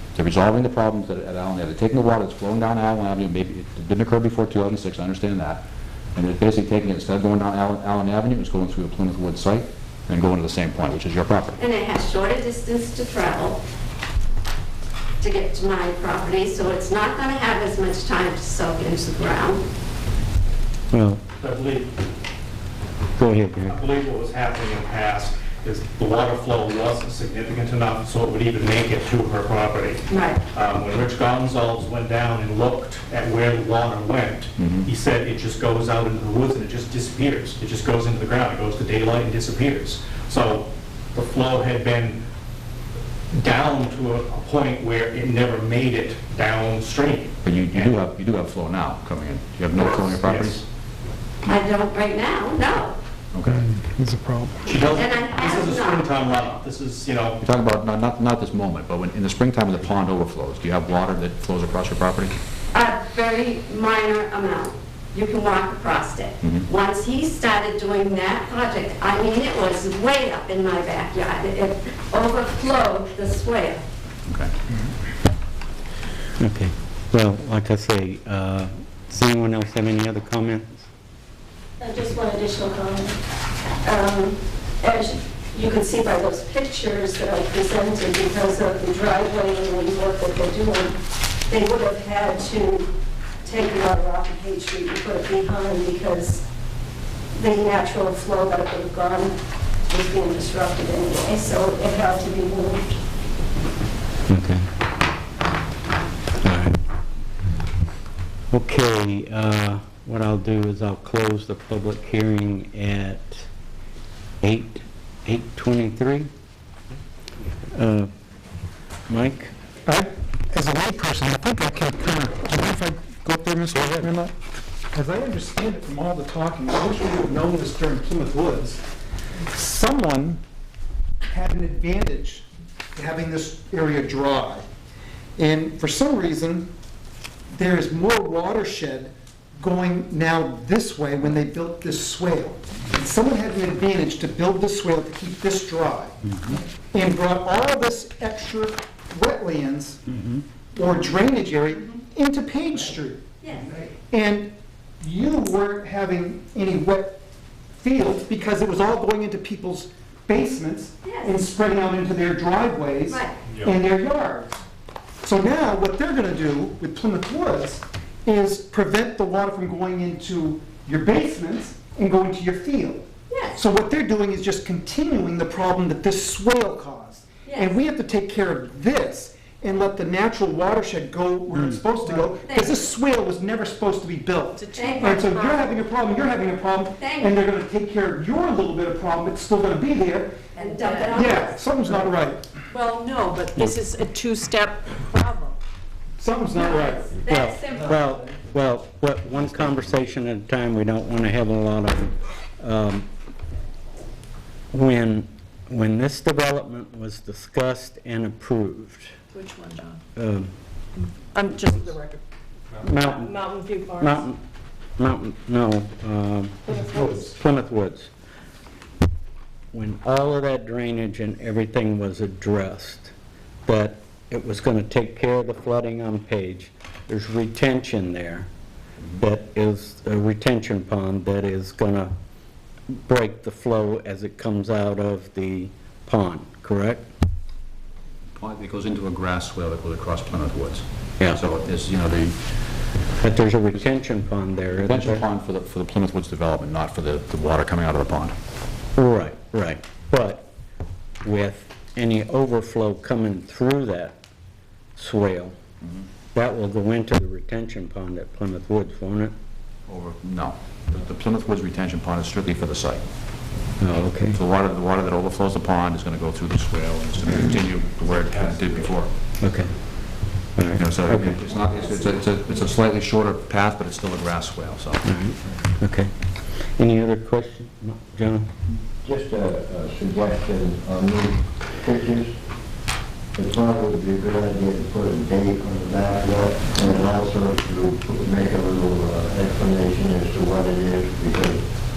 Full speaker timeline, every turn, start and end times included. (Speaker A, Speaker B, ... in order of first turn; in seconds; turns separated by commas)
Speaker A: 0.1-5.6, Speaker A: 6.2-11.6, Speaker B: 11.6-13.6, Speaker B: 15.2-19.6, Speaker C: 20.9-21.2, Speaker D: 21.4-21.9, Speaker C: 23.2-23.8, Speaker D: 23.7-42.2, Speaker B: 30.1-30.4, Speaker A: 34.6-34.9, Speaker D: 43.3-47.9, Speaker A: 47.4-50.6, Speaker D: 50.0-50.6, Speaker B: 51.5-53.0, Speaker A: 53.3-53.7, Speaker D: 54.7-57.4, Speaker B: 54.8-56.2, Speaker A: 57.4-62.4, Speaker B: 62.7-73.8, Speaker A: 74.3-74.5, Speaker C: 76.4-80.9, Speaker E: 81.8-83.2, Speaker E: 83.8-91.0, Speaker E: 91.5-92.9, Speaker E: 93.4-96.5, Speaker E: 97.3-99.3, Speaker E: 99.9-103.0, Speaker C: 104.3-104.6, Speaker C: 106.4-106.8, Speaker C: 108.5-113.5, Speaker C: 114.4-116.3, Speaker C: 117.7-118.1, Speaker C: 119.1-119.5, Speaker F: 119.9-124.3, Speaker F: 124.9-128.8, Speaker F: 129.5-130.4, Speaker F: 131.3-134.7, Speaker F: 135.4-136.7, Speaker F: 137.5-146.2, Speaker F: 146.9-150.0, Speaker F: 150.8-153.3, Speaker B: 153.4-153.7, Speaker F: 154.1-157.2, Speaker F: 157.8-164.6, Speaker B: 161.0-161.3, Speaker B: 163.1-163.3, Speaker F: 165.2-190.4, Speaker B: 173.3-173.6, Speaker B: 177.4-177.8, Speaker B: 182.4-182.9, Speaker G: 184.6-185.4, Speaker B: 184.8-185.6, Speaker B: 187.0-187.4, Speaker B: 190.6-191.6, Speaker G: 190.8-191.3, Speaker F: 191.1-192.5, Speaker G: 192.7-195.6, Speaker F: 196.2-197.2, Speaker G: 196.5-197.9, Speaker C: 197.3-203.1, Speaker C: 204.7-209.2, Speaker G: 209.3-210.0, Speaker C: 210.2-210.5, Speaker G: 211.0-212.2, Speaker C: 212.8-213.4, Speaker G: 213.0-213.8, Speaker E: 213.2-214.1, Speaker C: 214.0-214.4, Speaker C: 215.0-218.1, Speaker E: 216.8-217.2, Speaker F: 216.8-217.3, Speaker C: 219.7-223.1, Speaker C: 223.7-228.5, Speaker C: 229.2-232.1, Speaker C: 232.9-237.1, Speaker A: 238.4-242.4, Speaker C: 243.2-245.3, Speaker A: 244.7-248.4, Speaker C: 249.0-250.5, Speaker C: 251.2-254.2, Speaker C: 255.0-255.6, Speaker C: 256.3-259.3, Speaker A: 259.9-263.0, Speaker C: 263.8-264.4, Speaker A: 264.3-269.1, Speaker C: 269.4-269.7, Speaker C: 270.6-271.4, Speaker A: 270.8-275.0, Speaker C: 275.0-276.1, Speaker C: 276.8-278.5, Speaker H: 279.0-282.4, Speaker H: 283.4-291.7